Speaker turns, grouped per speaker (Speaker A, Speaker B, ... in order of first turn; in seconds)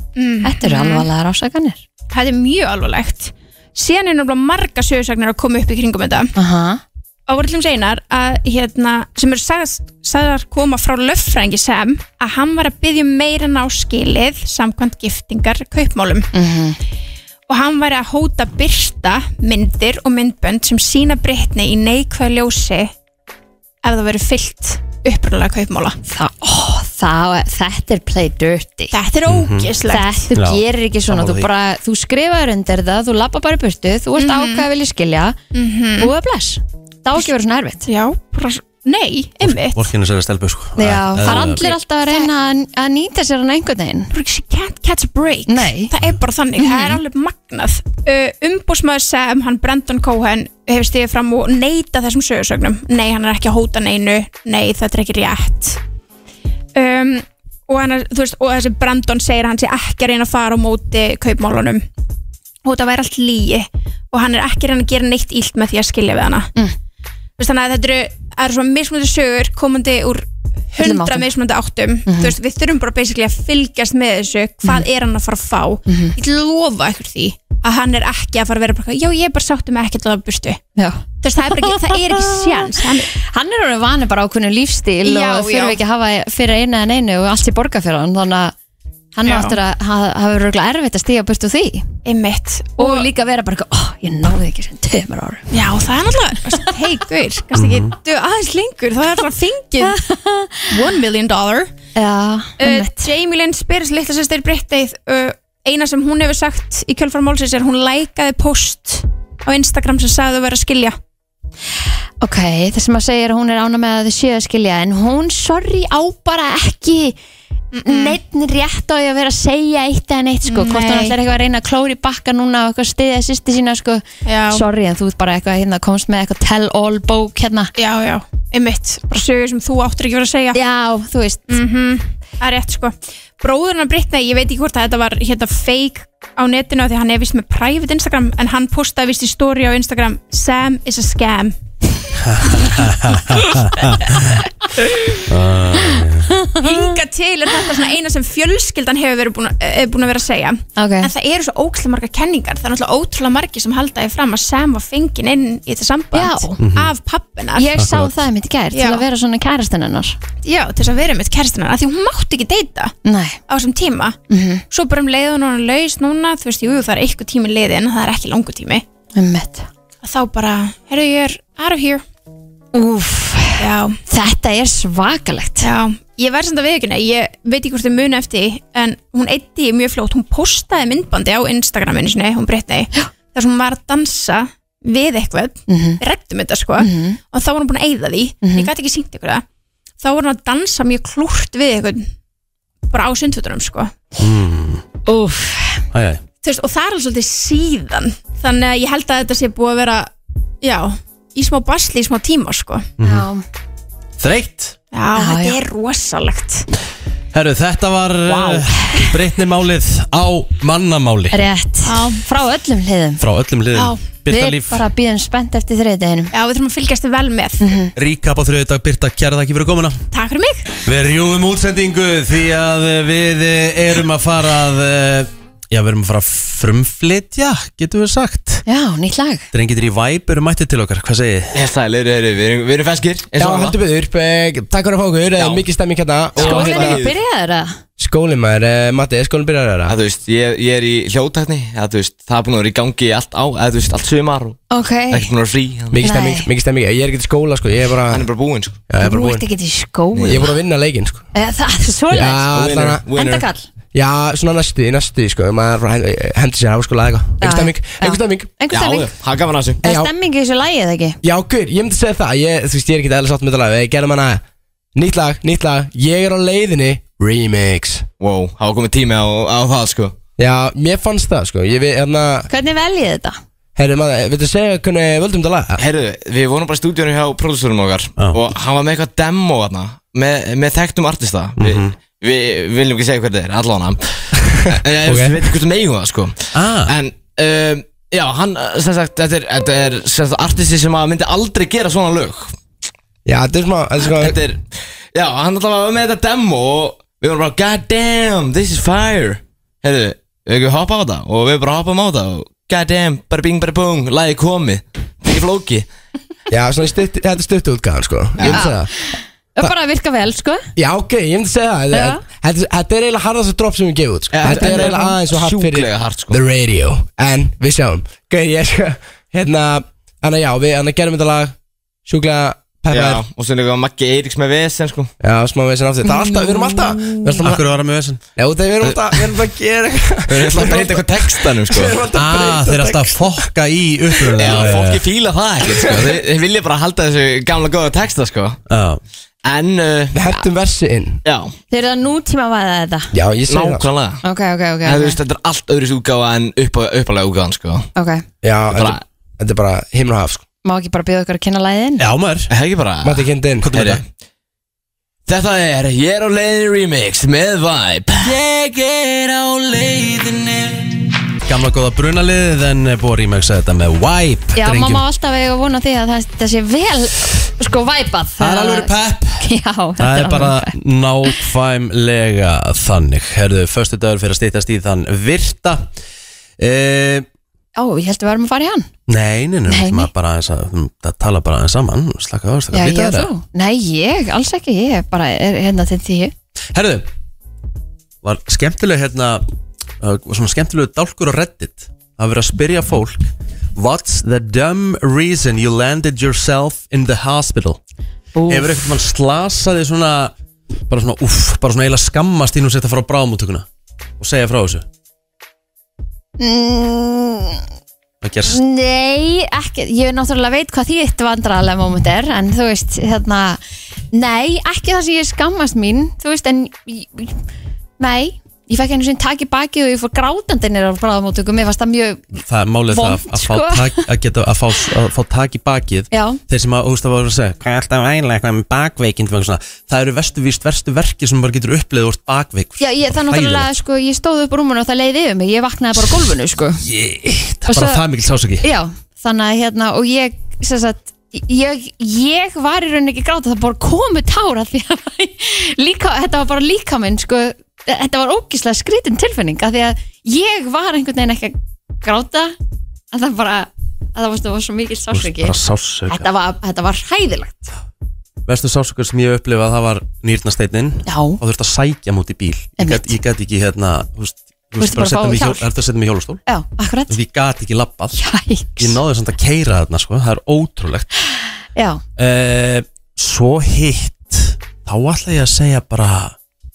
Speaker A: 0.1-1.1, 2.1-6.3, 7.3-16.3, 17.5-22.9, 23.8-26.0, 28.9-30.2, 34.2-34.7, 35.5-36.1, 37.9-39.9, 41.2-42.3, 44.1-55.8, 56.7-61.8, 62.6-66.5, 67.4-80.6, 81.2-83.1, 85.0-85.8, 89.2-89.6, 92.0-93.1, 95.5-100.0, 100.7-101.7, 102.6-111.0, 117.7-118.2, 120.5-121.2, 124.2-124.6, 127.8-130.6, 131.5-141.6, 146.5-157.8, 158.7-159.0, 160.4-162.9, 163.5-164.2, 164.7-168.8, 170.0-172.0, 173.6-174.0, 175.6-189.4, 190.0-192.1, 192.9-193.9, 196.4-200.1, 200.6-202.9, 204.9-206.7, 211.8-212.2, 213.7-214.0, 216.3-217.6, 220.1-220.7
Speaker B: 0.4-1.8, 6.3-6.8, 16.3-16.8, 26.0-28.9, 29.9-35.4, 36.0-37.9, 40.8-44.1, 45.5-45.9, 46.6-47.0, 70.8-71.3, 72.0-72.3, 75.9-76.1, 80.8-88.5, 89.1-91.8, 92.8-95.5, 99.8-100.7, 102.0-103.1, 112.2-117.2, 117.8-127.7, 130.5-131.6, 146.3-146.7, 150.8-151.1, 156.1-156.6, 157.5-160.2, 163.0-163.4, 164.3-164.6, 169.2-169.7, 172.7-175.7, 185.7-186.0, 186.8-187.2, 188.4-188.7, 195.1-195.8, 203.0-203.4, 205.2-205.6, 208.3-209.0, 211.3-213.2, 214.3-216.3, 217.6-217.9, 228.7-229.4, 236.4-237.8, 244.7-245.3, 246.0-246.5, 249.0-250.5, 251.3-252.4, 253.1-253.6, 257.4-259.1, 259.8-261.2, 272.5-273.4, 308.5-310.6, 311.9-312.2, 314.4-315.1, 326.1-327.1, 341.7-343.1, 344.2-345.2, 347.9-348.2, 350.6-352.1, 364.6-370.7, 377.8-378.9, 379.7-380.1, 382.7-386.3, 398.4-398.8, 406.4-407.6, 408.4-413.6, 414.1-417.4, 418.0-424.0, 426.1-426.4, 432.8-436.8, 437.7-438.0, 438.6-452.5, 453.1-455.6, 456.1-457.7, 461.1-461.4, 462.8-463.2, 464.8-465.6, 466.5-467.2, 468.1-469.0, 471.8-472.0
Speaker C: 29.2-29.7, 30.3-31.5, 39.4-41.6, 97.5-97.9, 142.2-144.4, 145.2-146.4, 156.6-156.9, 157.8-158.1, 194.2-194.8, 195.9-196.2, 203.0-203.3, 204.2-204.8, 207.3-211.4, 213.2-214.8, 217.9-220.0, 220.8-228.6, 229.5-231.6, 281.6-281.9, 286.5-286.9, 327.4-328.2, 332.1-335.1, 338.7-339.0, 352.0-352.5, 353.6-354.0, 358.2-360.9, 361.4-365.0, 368.4-369.4, 370.0-375.9, 376.6-377.3, 379.1-383.3, 386.7-387.1, 388.2-389.4, 390.0-397.8, 398.5-400.3, 400.9-403.6, 404.2-404.9, 408.2-408.6, 422.4-433.7, 436.0-438.7, 455.1-456.3, 458.4-466.4, 467.1-468.2, 468.8-471.1, 472.2-476.4
Speaker D: 231.5-233.8, 235.3-235.7, 236.3-237.2, 239.9-246.1, 248.1-248.8, 250.1-250.5, 252.5-253.5, 258.7-259.8, 268.2-270.1, 275.8-284.2, 284.8-292.6, 294.0-294.6, 295.1-305.9, 308.4-308.7, 314.3-316.4, 322.9-325.1, 328.8-329.4, 330.3-332.2, 334.4-338.6, 339.4-340.2, 341.2-341.5, 343.5-344.2, 344.8-347.9, 348.7-349.0, 352.5-354.0, 355.2-358.4
Speaker E: 233.4-237.0, 238.0-239.9, 245.9-248.3, 248.9-249.4, 250.3-251.2, 252.1-253.0, 253.9-258.6, 259.8-260.1, 261.2-264.4, 264.9-268.1, 270.4-272.5, 273.8-275.8, 285.0-285.5, 293.2-294.4, 306.5-308.9, 310.8-321.5, 322.1-323.2, 325.2-327.6, 328.4-333.5, 334.4-334.7, 335.6-336.1, 340.1-341.2, 343.1-343.8, 348.4-350.4, 353.0-353.7